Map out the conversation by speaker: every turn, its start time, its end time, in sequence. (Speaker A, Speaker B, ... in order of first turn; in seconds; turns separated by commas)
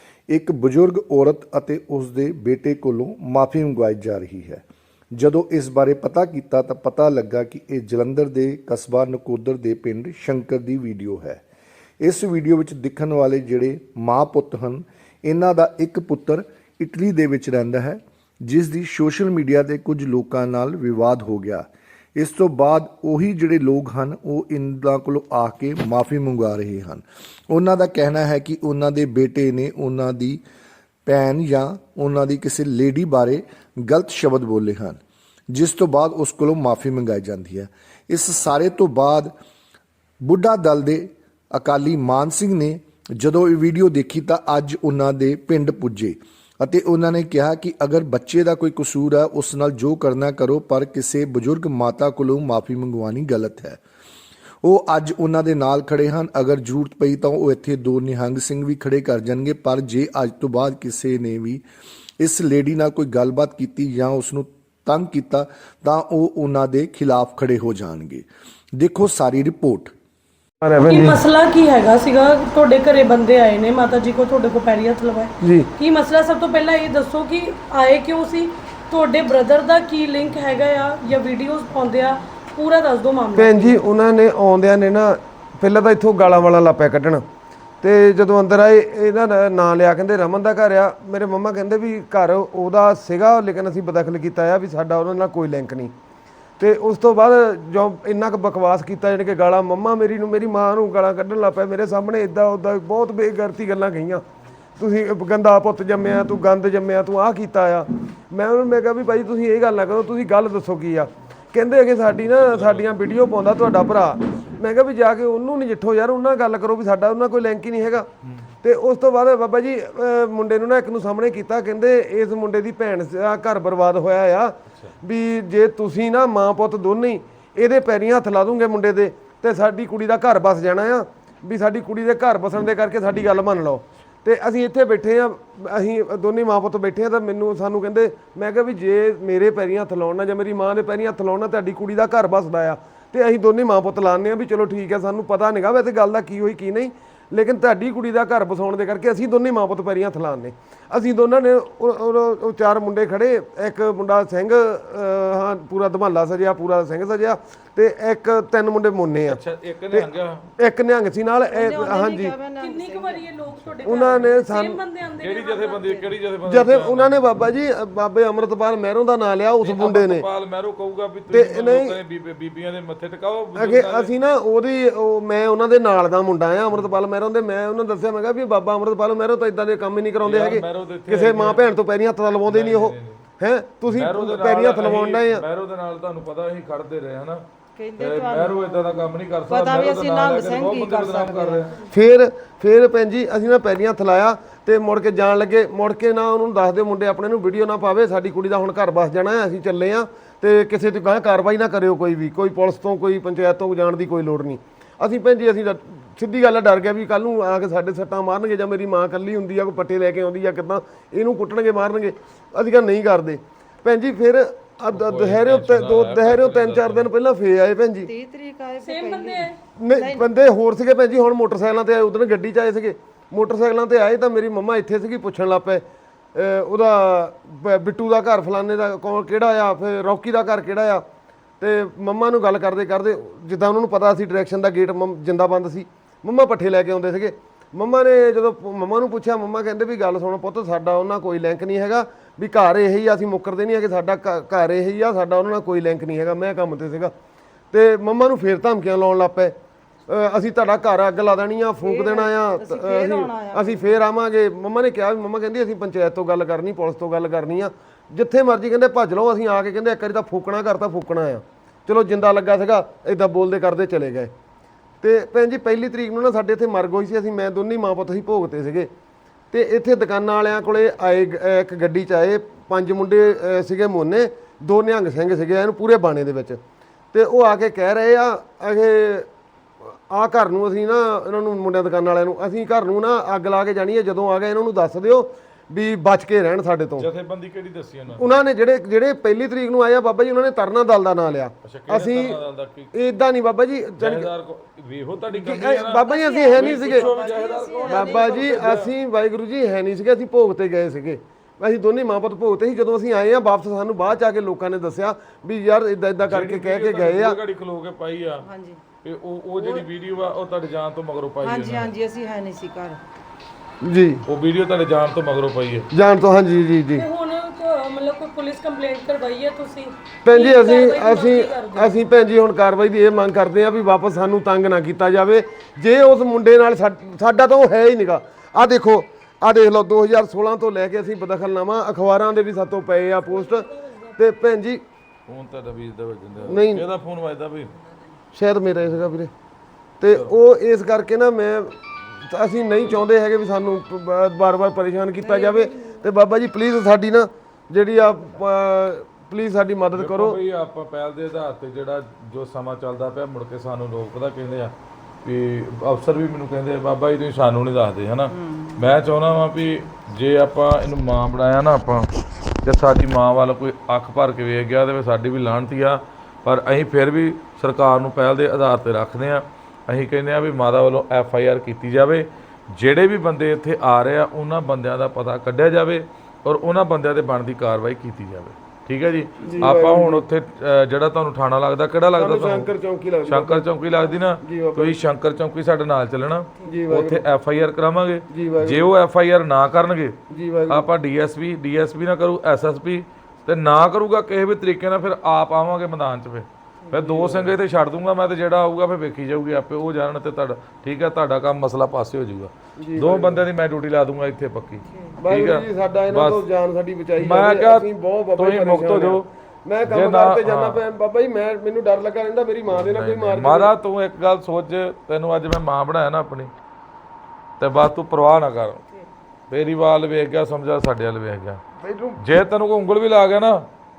Speaker A: 0.3-4.6, Speaker A: 5.1-11.4, Speaker A: 12.0-30.4, Speaker A: 31.1-35.0, Speaker A: 35.5-39.3, Speaker A: 40.2-53.8, Speaker A: 54.6-61.6, Speaker A: 62.2-68.3, Speaker A: 68.8-69.9, Speaker B: 70.6-71.2, Speaker C: 70.8-83.8, Speaker B: 75.4-75.7, Speaker B: 83.3-87.2, Speaker B: 87.8-95.9, Speaker B: 96.6-104.2, Speaker B: 104.8-118.1, Speaker D: 112.4-112.9, Speaker B: 118.6-159.4, Speaker D: 159.2-160.5, Speaker B: 159.9-162.3, Speaker E: 161.5-163.3, Speaker C: 162.6-166.0, Speaker B: 163.8-164.8, Speaker D: 165.2-167.2, Speaker B: 166.5-170.3, Speaker D: 169.6-174.1, Speaker B: 171.3-172.0, Speaker B: 173.6-185.4, Speaker D: 180.2-181.7, Speaker D: 182.5-183.2, Speaker D: 183.9-187.4, Speaker E: 187.8-191.8, Speaker D: 188.0-191.8, Speaker B: 191.8-218.1, Speaker D: 214.9-217.1, Speaker E: 218.0-220.3, Speaker C: 218.8-219.6, Speaker B: 219.8-225.8, Speaker B: 226.3-231.0, Speaker B: 231.6-247.1, Speaker B: 247.7-249.6, Speaker B: 250.1-264.3, Speaker E: 251.8-254.0, Speaker B: 265.0-268.9, Speaker B: 269.5-276.6, Speaker B: 277.1-279.3, Speaker B: 280.1-287.1, Speaker D: 287.0-288.3, Speaker B: 288.1-292.4, Speaker D: 291.6-292.9, Speaker B: 292.9-294.3, Speaker D: 294.0-298.9, Speaker B: 295.3-297.2, Speaker E: 296.1-298.8, Speaker B: 297.8-307.4, Speaker D: 306.2-308.4, Speaker E: 308.4-308.8, Speaker D: 309.0-311.9, Speaker E: 309.6-309.9, Speaker E: 311.4-313.0, Speaker B: 313.8-314.2, Speaker D: 314.2-315.9, Speaker B: 315.9-317.0, Speaker C: 316.9-321.9, Speaker B: 320.2-334.8, Speaker D: 335.3-337.7, Speaker B: 336.4-336.8, Speaker B: 338.3-339.3, Speaker B: 340.0-350.4, Speaker D: 349.9-362.1, Speaker E: 358.3-358.9, Speaker D: 362.6-382.7, Speaker B: 379.4-380.2, Speaker B: 382.1-383.7, Speaker D: 383.3-390.2, Speaker B: 384.4-385.0, Speaker B: 386.6-387.2, Speaker B: 388.3-388.9, Speaker B: 390.3-390.9, Speaker D: 390.7-406.4, Speaker B: 396.9-397.5, Speaker B: 402.8-403.4, Speaker B: 405.2-413.7, Speaker D: 407.2-409.2, Speaker D: 409.9-410.8, Speaker D: 412.7-416.5, Speaker D: 417.6-418.8, Speaker D: 419.5-421.6, Speaker B: 421.8-422.2, Speaker D: 422.2-423.7